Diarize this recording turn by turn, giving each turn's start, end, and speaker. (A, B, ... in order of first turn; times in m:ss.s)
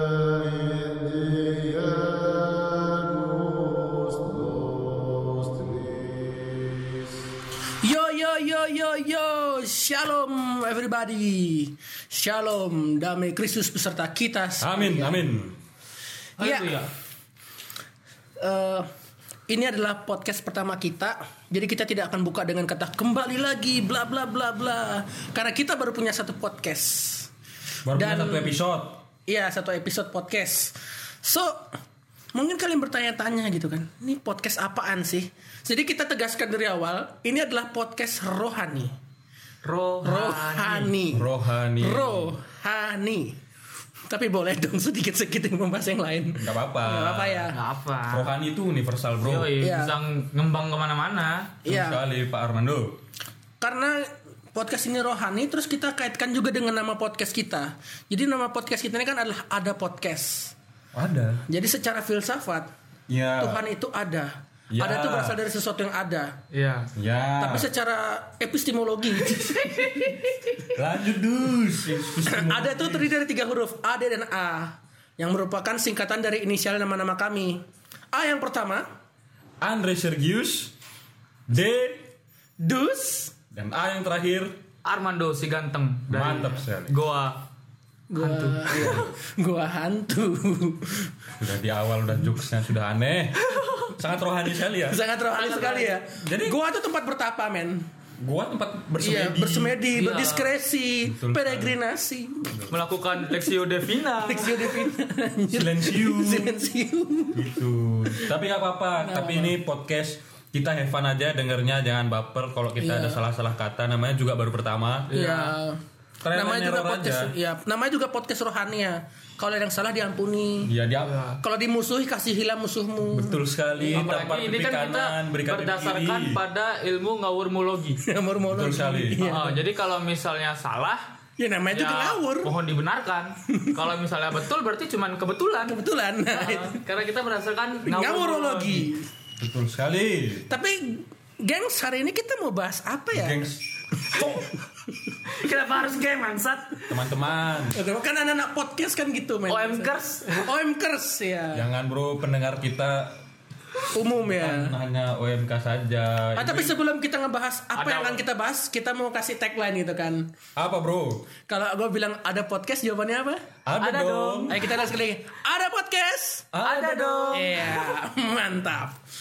0:07.8-0:15.2 A
0:14.6-0:15.6 B
0:16.4-0:16.9 C
0:16.4-0:16.8 A
0:18.4-0:18.9 A
0:19.5-0:27.3 A
0:27.9-0:29.0 B
0:28.0-0:28.6 A
0:29.3-0:31.8 A
0:32.3-0:38.9 A
0:39.6-0:41.0 C
0:40.0-0:43.4 A
0:41.1-0:42.4 B
0:44.1-0:47.6 A
0:46.4-0:47.5 B
0:47.5-0:48.3 C
0:48.1-0:49.5 B
0:49.2-0:51.5 C
0:49.6-0:49.9 A
0:51.6-0:52.0 A
0:51.6-0:53.0 B
0:53.6-1:00.6 A
1:00.9-1:01.4 B
1:01.5-1:02.7 A
1:03.1-1:03.6 B
1:03.4-1:06.4 A
1:04.7-1:05.4 B
1:06.5-1:06.9 C
1:07.0-1:07.7 B
1:07.4-1:10.6 A
1:09.4-1:10.1 C
1:10.7-1:13.1 B
1:12.1-1:17.6 A
1:18.1-1:18.9 A
1:19.6-1:20.7 B
1:21.5-1:22.1 B
1:22.6-1:23.3 A
1:23.5-1:24.6 B
1:24.8-1:27.4 C
1:26.1-1:27.0 B
1:28.1-1:31.1 A
1:28.2-1:29.0 C
1:28.8-1:29.1 B
1:31.4-1:35.0 B
1:34.9-1:37.9 A
1:35.3-1:36.0 C
1:36.2-1:36.6 B
1:38.2-1:39.8 B
1:39.0-1:42.6 A
1:39.9-1:40.5 C
1:41.0-1:41.8 B
1:42.5-1:42.8 B
1:42.7-1:44.9 C
1:44.2-1:48.3 A
1:45.5-1:46.6 B
1:47.3-1:55.1 B
1:49.0-1:49.6 A
1:52.8-1:53.2 A
1:55.1-1:55.6 C
1:55.1-2:00.7 A
1:56.2-1:57.3 B
2:00.6-2:01.2 B
2:01.0-2:01.4 C
2:01.4-2:03.4 A
2:03.1-2:06.4 B
2:03.9-2:08.0 C
2:08.0-2:09.6 A
2:08.5-2:09.3 B
2:09.2-2:11.0 C
2:11.4-2:12.5 A
2:11.7-2:15.8 C
2:15.7-2:16.8 A
2:16.3-2:18.9 C
2:17.9-2:19.1 A
2:19.4-2:20.5 B
2:20.5-2:23.4 A
2:23.1-2:23.6 B
2:24.0-2:24.5 A
2:24.2-2:24.4 C
2:25.3-2:27.0 C
2:26.9-2:27.8 B
2:27.7-2:31.7 A
2:29.5-2:30.5 C
2:31.5-2:33.2 B
2:33.9-2:34.8 A
2:34.2-2:36.7 B
2:36.4-2:40.3 A
2:37.8-2:38.2 C
2:40.6-2:41.3 B
2:41.5-2:43.4 A
2:43.7-2:44.7 B
2:43.8-2:44.7 C
2:44.5-2:46.5 A
2:46.5-2:47.4 B
2:46.6-2:47.7 C
2:47.3-2:49.0 A